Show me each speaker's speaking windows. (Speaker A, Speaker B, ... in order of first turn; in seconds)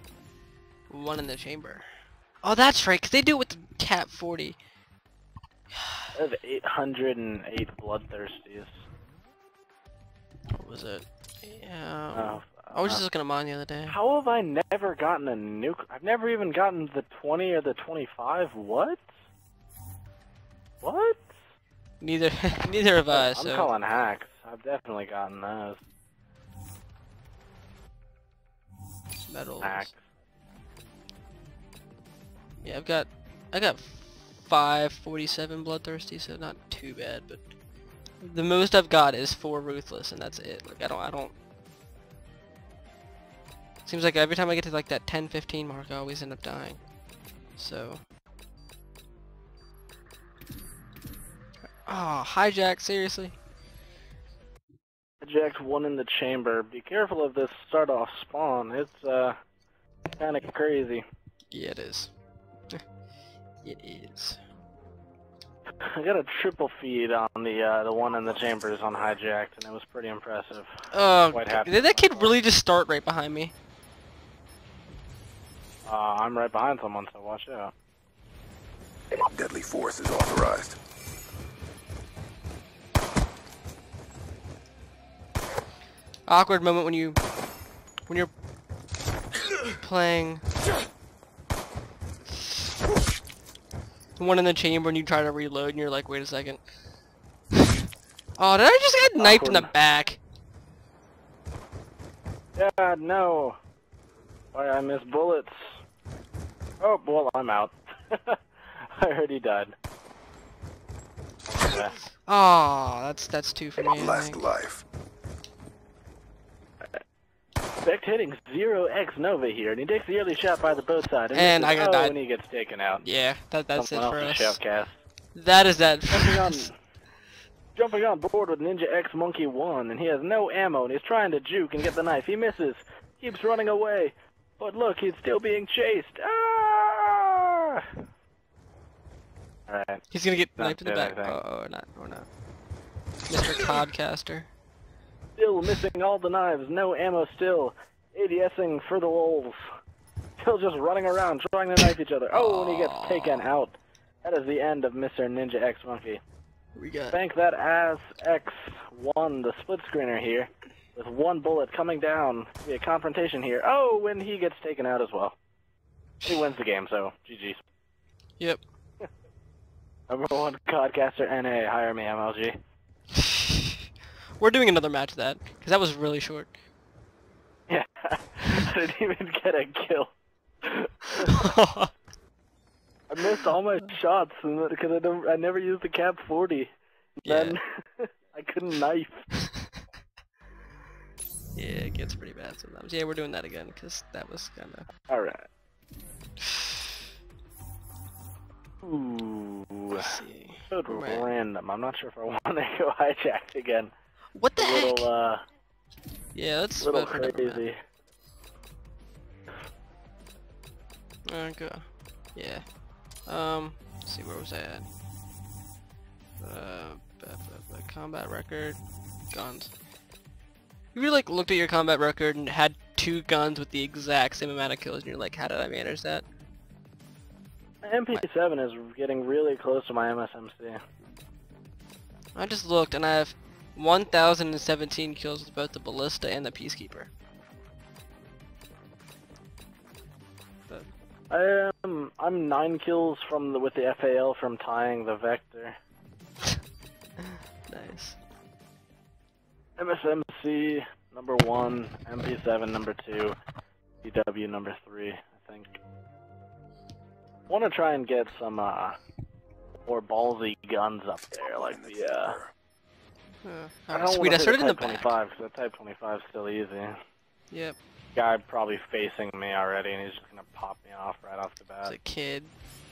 Speaker A: 0.9-1.9, 2.4-4.6, 10.5-13.9, 22.0-23.7, 29.3-29.9, 32.6-37.4, 38.2-41.3, 43.8-46.8, 47.5-48.0, 51.9-53.3, 61.5-62.1, 63.6-64.4, 70.9-73.5, 86.3-87.2, 89.8-90.4, 94.2-96.6, 98.4-100.2, 112.2-114.5, 121.3-122.2, 123.0-124.6, 125.3-126.6, 140.1-142.3, 143.3-144.5, 152.3-153.4, 156.7-157.2, 173.2-173.8, 174.4-176.5, 181.2-181.9, 187.2-187.6, 191.5-194.9, 199.9-201.2, 204.3-205.1, 206.3-207.6, 211.2-212.6, 213.2-214.9, 216.4-218.8, 219.3-219.7, 220.9-226.2, 232.3-237.1, 247.2-248.2, 263.4-265.1, 267.5-267.8, 271.8-272.5
Speaker B: 6.1-8.7, 12.1-13.0, 13.8-19.0, 20.8-21.4, 23.1-25.8, 29.6-30.0, 55.2-59.4, 60.2-61.0, 65.9-72.3, 75.8-77.7, 99.2-99.7, 102.5-103.6, 104.5-105.8, 106.8-109.7, 111.5-111.9, 117.8-123.0, 123.7-125.0, 126.1-126.7, 127.8-137.9, 139.7-140.1, 140.6-141.4, 145.4-149.6, 150.4-156.2, 157.1-165.3, 166.2-167.6, 170.1-172.5, 177.7-180.1, 180.6-181.3, 183.1-186.7, 187.2-189.3, 195.1-195.4, 198.8-200.1, 200.7-203.9, 204.6-205.4, 206.8-207.8, 227.8-230.8, 241.3-245.7, 249.8-253.3, 254.0-255.7, 257.5-259.0, 259.9-262.4, 263.9-266.9, 268.1-271.9
Speaker C: 79.3-80.8, 113.9-114.8, 261.6-262.5